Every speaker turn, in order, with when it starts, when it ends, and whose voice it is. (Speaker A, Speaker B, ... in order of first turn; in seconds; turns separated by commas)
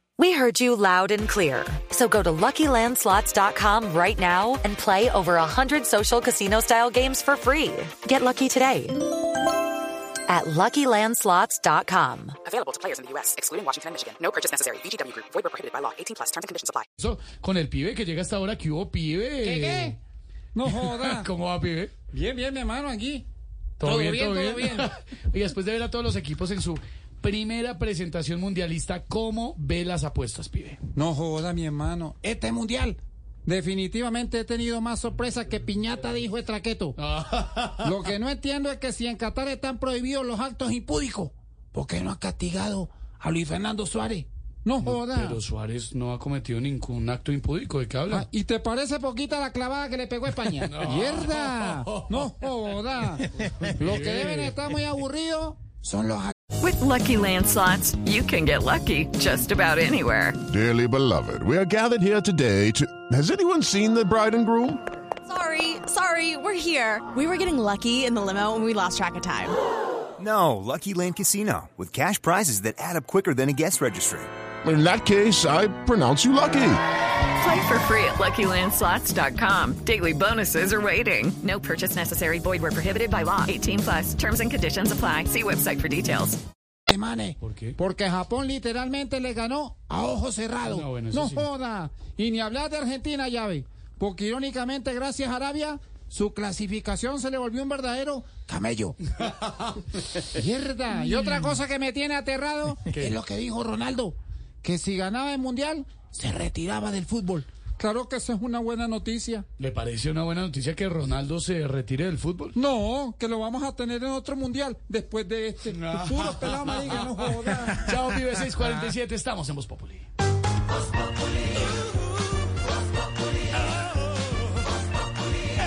Speaker A: 0.2-9.0, Speaker A: 10.3-12.4, Speaker B: 12.5-16.8, Speaker C: 17.0-19.9, Speaker D: 19.4-20.0, Speaker D: 20.6-21.3, Speaker C: 20.7-22.0, Speaker D: 22.1-23.2, Speaker C: 23.8-30.8, Speaker D: 23.8-24.9, Speaker D: 31.0-37.0, Speaker C: 37.0-37.9, Speaker D: 37.8-45.4, Speaker C: 44.8-48.3, Speaker D: 48.1-56.4, Speaker C: 50.7-52.2, Speaker C: 53.8-54.6, Speaker E: 56.6-60.4, Speaker F: 60.5-64.8, Speaker G: 65.3-69.6, Speaker H: 70.2-74.3, Speaker F: 74.6-76.8, Speaker E: 77.4-86.4, Speaker D: 86.9-99.0, Speaker C: 87.4-87.8, Speaker C: 90.7-91.5, Speaker D: 100.2-109.5, Speaker C: 102.9-103.2, Speaker C: 109.6-112.5, Speaker D: 112.5-117.9, Speaker C: 115.8-117.2, Speaker C: 117.7-120.1